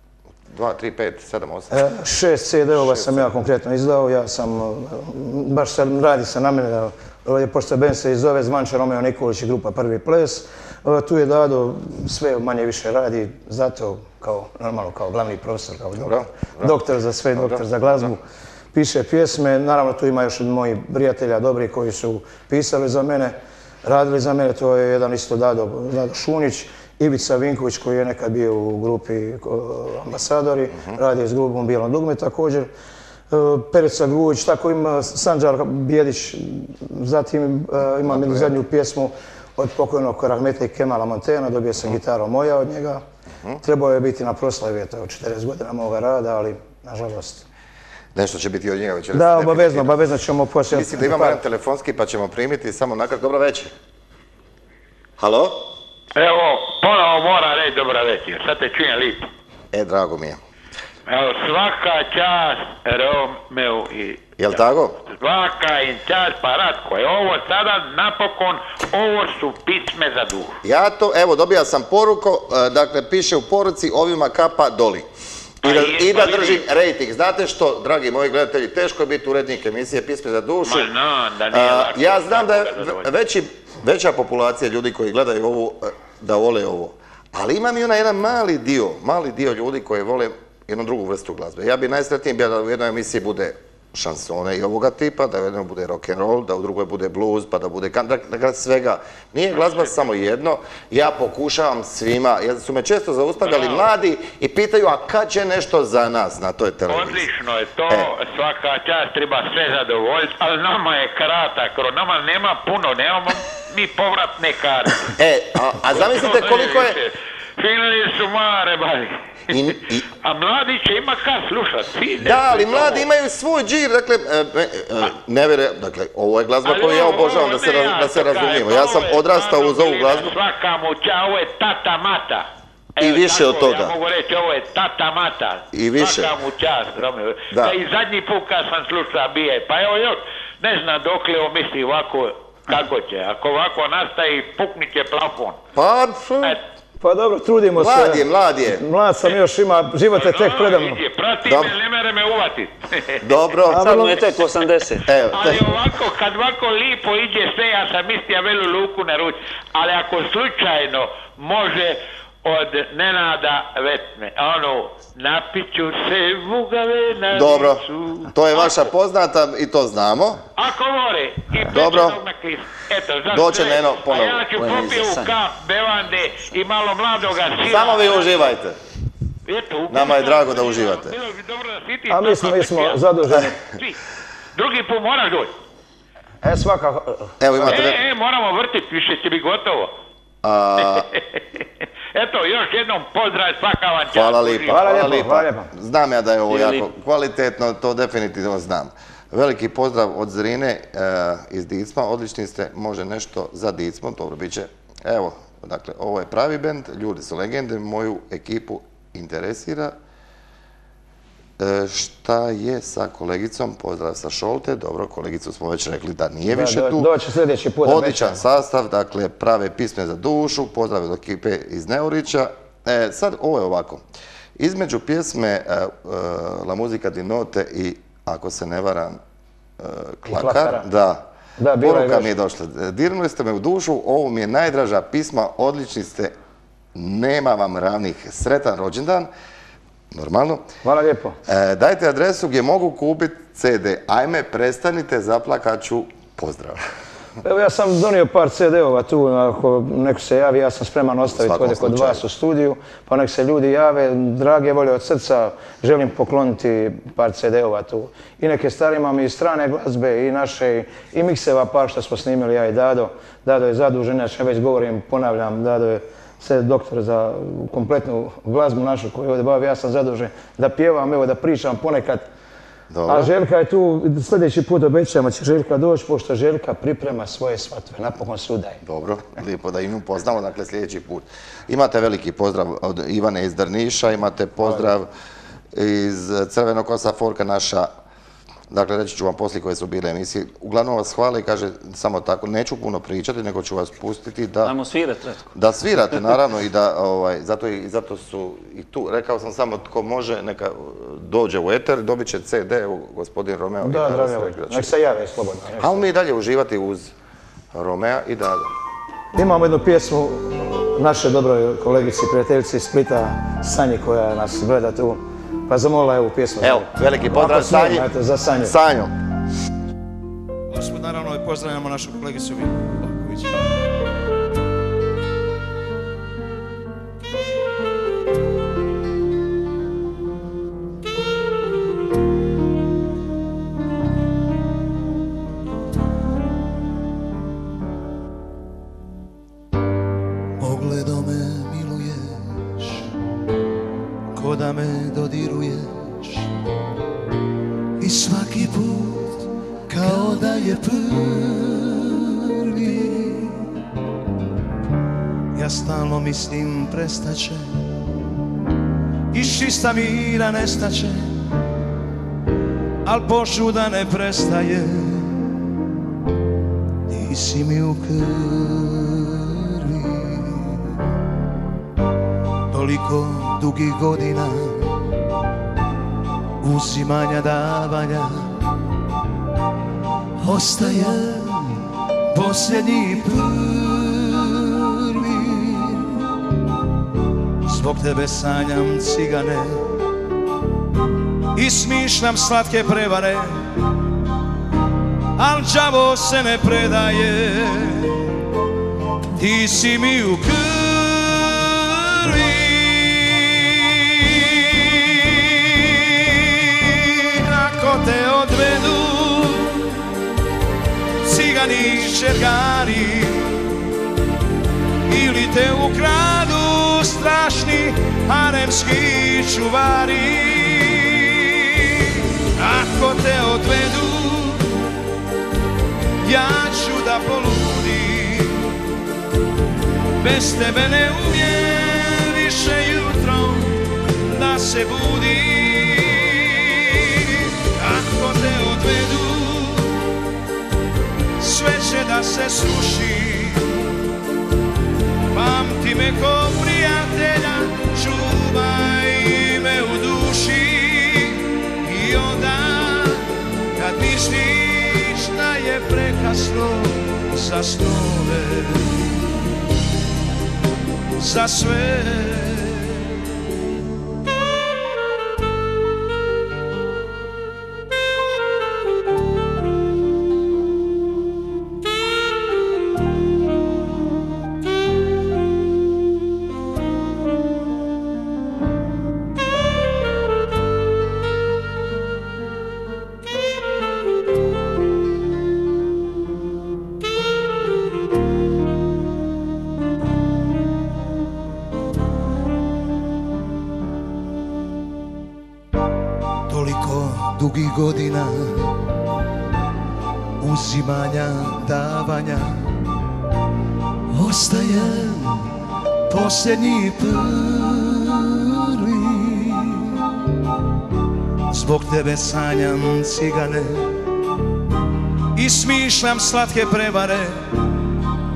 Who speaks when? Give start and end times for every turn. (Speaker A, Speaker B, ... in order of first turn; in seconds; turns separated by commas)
Speaker A: 0.5-1.9, Speaker B: 1.7-18.2, Speaker A: 2.7-3.3, Speaker A: 16.0-16.8, Speaker A: 17.3-17.6, Speaker B: 18.7-32.7, Speaker B: 33.3-43.0, Speaker A: 38.0-38.6, Speaker B: 43.6-47.5, Speaker A: 48.1-50.0, Speaker B: 49.1-51.4, Speaker A: 50.7-53.7, Speaker A: 55.2-55.6, Speaker C: 56.1-59.3, Speaker A: 59.7-60.4, Speaker C: 61.1-64.3, Speaker A: 64.4-65.0, Speaker C: 65.1-70.6, Speaker A: 70.6-75.1, Speaker A: 75.6-80.9, Speaker C: 75.6-76.6, Speaker C: 80.7-83.0, Speaker A: 81.5-107.3, Speaker C: 103.5-103.8, Speaker C: 106.9-115.2, Speaker A: 115.2-117.0, Speaker C: 115.9-123.0, Speaker A: 119.5-120.0, Speaker A: 122.2-130.3, Speaker C: 126.6-132.4, Speaker C: 133.0-145.6, Speaker A: 133.0-133.9, Speaker A: 135.7-136.3, Speaker A: 137.5-137.8, Speaker A: 145.7-146.6, Speaker B: 147.0-151.0, Speaker A: 147.7-148.8, Speaker C: 150.1-153.2, Speaker A: 151.4-151.8, Speaker A: 153.2-154.0, Speaker B: 153.7-154.1, Speaker D: 153.7-155.1, Speaker A: 155.1-155.8, Speaker C: 155.3-168.8, Speaker A: 167.3-170.4, Speaker C: 170.6-178.3, Speaker A: 171.7-172.2, Speaker A: 173.3-174.5, Speaker D: 174.6-175.3, Speaker A: 177.6-178.8, Speaker C: 179.4-183.0, Speaker A: 179.9-181.2, Speaker B: 182.1-183.6, Speaker C: 183.6-184.0, Speaker C: 184.5-185.5, Speaker B: 186.4-187.8, Speaker A: 187.4-188.0, Speaker C: 187.7-189.9, Speaker A: 190.4-191.1, Speaker C: 190.8-194.8, Speaker A: 194.1-209.9, Speaker B: 194.7-195.7, Speaker D: 196.5-196.8, Speaker A: 211.6-217.1, Speaker B: 216.5-218.4, Speaker A: 217.8-224.0, Speaker A: 224.6-229.2, Speaker A: 229.8-236.3, Speaker B: 230.2-230.9, Speaker B: 231.6-232.3, Speaker A: 236.9-239.3, Speaker A: 240.1-240.7, Speaker B: 240.8-241.4, Speaker A: 241.5-246.8, Speaker B: 247.4-272.2, Speaker A: 251.3-252.2, Speaker A: 272.9-273.3, Speaker B: 273.1-278.8, Speaker A: 278.8-285.1, Speaker A: 285.7-287.9, Speaker A: 288.7-294.7, Speaker D: 294.6-295.5, Speaker A: 295.5-304.9, Speaker B: 303.8-306.1, Speaker A: 305.8-307.1, Speaker A: 307.7-308.7, Speaker B: 309.3-318.7, Speaker A: 316.6-319.1, Speaker E: 320.7-323.6, Speaker E: 340.6-343.1, Speaker E: 344.3-346.5, Speaker E: 348.0-353.7, Speaker E: 355.5-357.8, Speaker E: 359.3-361.3, Speaker E: 363.0-365.4, Speaker E: 367.1-371.0, Speaker E: 372.7-375.0, Speaker E: 376.6-378.5, Speaker E: 380.4-386.2, Speaker E: 387.6-389.8, Speaker E: 391.5-393.6, Speaker E: 395.4-398.3, Speaker E: 399.4-409.9, Speaker E: 411.2-413.5, Speaker E: 415.1-424.7, Speaker E: 426.2-428.7, Speaker E: 430.2-439.9, Speaker E: 441.4-443.8, Speaker E: 445.3-459.1, Speaker E: 461.2-463.1, Speaker E: 496.5-498.7, Speaker E: 500.4-502.7, Speaker E: 504.1-505.5, Speaker E: 506.1-509.9, Speaker E: 511.5-513.9, Speaker E: 515.3-517.4